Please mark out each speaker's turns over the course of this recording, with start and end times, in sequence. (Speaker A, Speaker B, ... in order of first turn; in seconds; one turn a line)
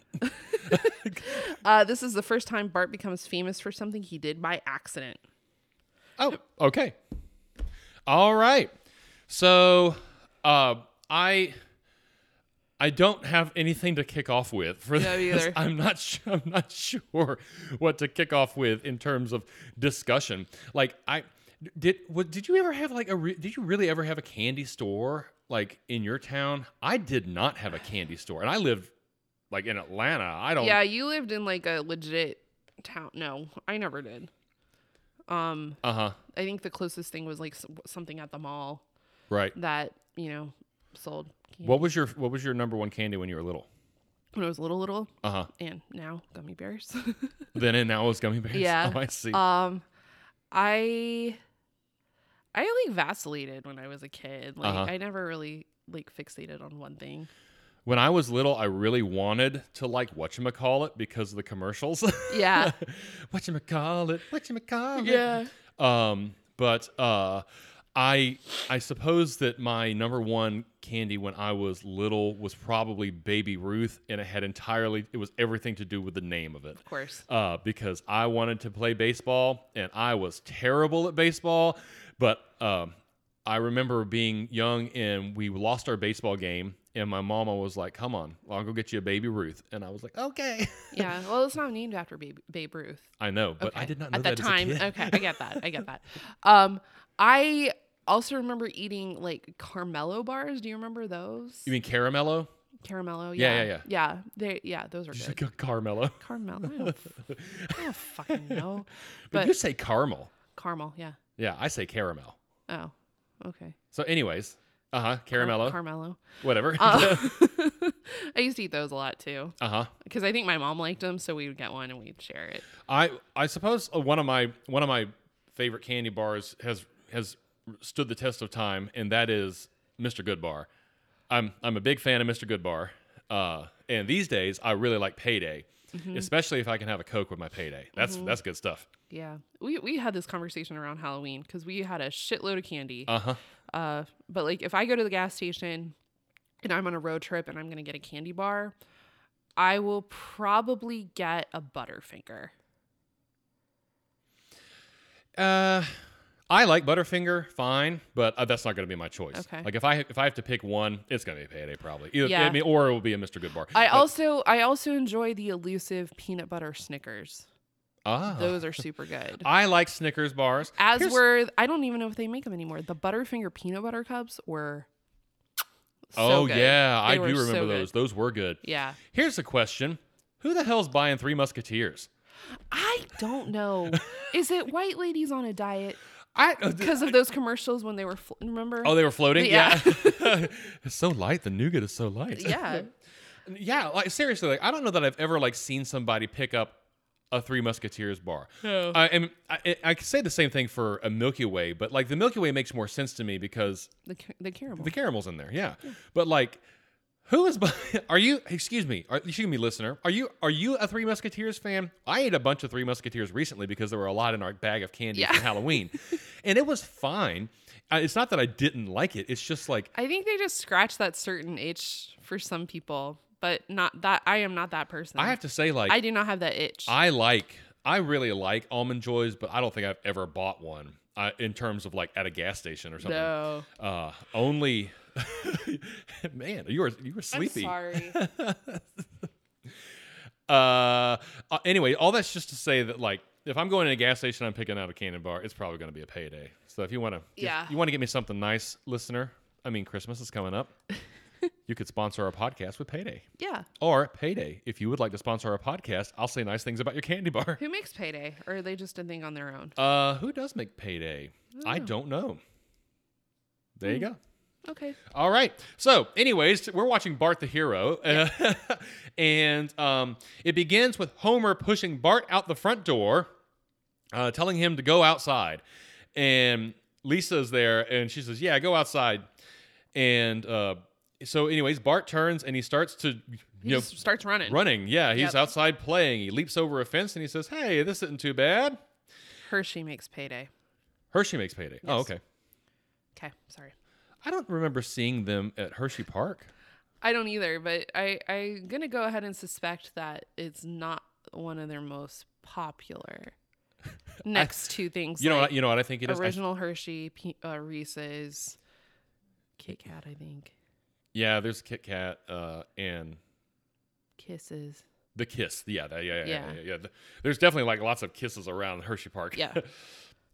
Speaker A: 0.2-5.2
Speaker B: 0.7-1.2
Speaker B: 6.2-7.0
Speaker B: 8.1-8.7
Speaker B: 9.3-11.6
Speaker B: 12.8-28.9
Speaker A: 15.0-15.6
Speaker B: 29.5-30.8
Speaker A: 30.6-34.3
Speaker A: 35.3-35.8
Speaker B: 35.8-36.2
Speaker A: 36.3-38.8
Speaker B: 39.3-39.5
Speaker A: 39.5-41.9
Speaker B: 41.6-43.7
Speaker A: 44.3-47.5
Speaker B: 45.2-45.5
Speaker B: 47.5-49.4
Speaker A: 48.5-49.9
Speaker A: 50.5-51.4
Speaker A: 52.5-57.3
Speaker B: 54.6-54.9
Speaker B: 57.9-67.4
Speaker A: 62.3-62.8
Speaker A: 65.0-65.5
Speaker B: 68.0-82.9
Speaker A: 76.8-77.2
Speaker B: 83.5-91.1
Speaker A: 90.9-93.0
Speaker B: 93.2-95.7
Speaker A: 93.6-101.7
Speaker B: 101.7-102.5
Speaker A: 102.8-105.4
Speaker B: 103.4-103.8
Speaker B: 105.1-108.7
Speaker A: 106.2-107.1
Speaker A: 107.7-109.5
Speaker B: 109.3-110.3
Speaker A: 110.5-111.2
Speaker B: 111.4-112.4
Speaker A: 112.7-113.8
Speaker B: 113.9-115.8
Speaker A: 115.3-122.7
Speaker B: 116.4-117.3
Speaker B: 119.6-119.9
Speaker B: 122.9-130.7
Speaker B: 131.3-138.9
Speaker A: 135.9-136.3
Speaker A: 138.0-138.4
Speaker A: 139.1-143.1
Speaker B: 143.1-143.4
Speaker A: 143.7-145.9
Speaker A: 146.6-148.8
Speaker A: 149.6-152.5
Speaker B: 155.4-156.0
Speaker B: 156.5-164.1
Speaker A: 159.3-159.7
Speaker A: 162.2-162.6
Speaker A: 163.7-167.5
Speaker B: 168.1-168.6
Speaker A: 168.3-169.5
Speaker B: 169.4-171.2
Speaker A: 170.8-174.9
Speaker A: 176.1-177.9
Speaker B: 176.2-178.6
Speaker A: 178.6-179.0
Speaker B: 179.1-182.1
Speaker A: 182.7-186.0
Speaker B: 183.9-184.2
Speaker B: 186.3-187.2
Speaker A: 186.8-190.5
Speaker B: 188.8-192.9
Speaker A: 192.3-192.9
Speaker B: 193.4-196.8
Speaker B: 197.3-203.9
Speaker A: 198.6-199.0
Speaker A: 204.1-204.9
Speaker B: 204.8-206.6
Speaker B: 207.3-219.9
Speaker A: 215.1-216.1
Speaker A: 219.9-225.4
Speaker B: 225.2-226.0
Speaker A: 225.9-226.9
Speaker B: 226.9-239.0
Speaker A: 233.0-233.7
Speaker A: 237.3-238.2
Speaker B: 240.5-250.7
Speaker A: 247.4-247.8
Speaker B: 251.7-253.2
Speaker A: 253.4-253.7
Speaker B: 253.8-257.6
Speaker A: 257.6-259.8
Speaker B: 259.8-262.4
Speaker A: 261.6-261.9
Speaker B: 263.8-264.2
Speaker A: 264.7-265.0
Speaker B: 265.1-273.3
Speaker B: 274.1-275.6
Speaker B: 276.1-279.3
Speaker B: 279.9-283.9
Speaker A: 283.6-284.6
Speaker B: 284.5-288.8
Speaker A: 285.1-285.5
Speaker A: 289.5-290.5
Speaker B: 291.1-292.2
Speaker A: 291.8-292.1
Speaker A: 293.1-293.7
Speaker B: 294.2-296.5
Speaker A: 297.0-303.3
Speaker A: 304.2-308.6
Speaker B: 305.2-306.4
Speaker A: 309.6-310.5
Speaker B: 311.1-313.2
Speaker A: 314.2-314.8
Speaker B: 315.1-319.8
Speaker A: 316.2-316.6
Speaker A: 319.4-319.6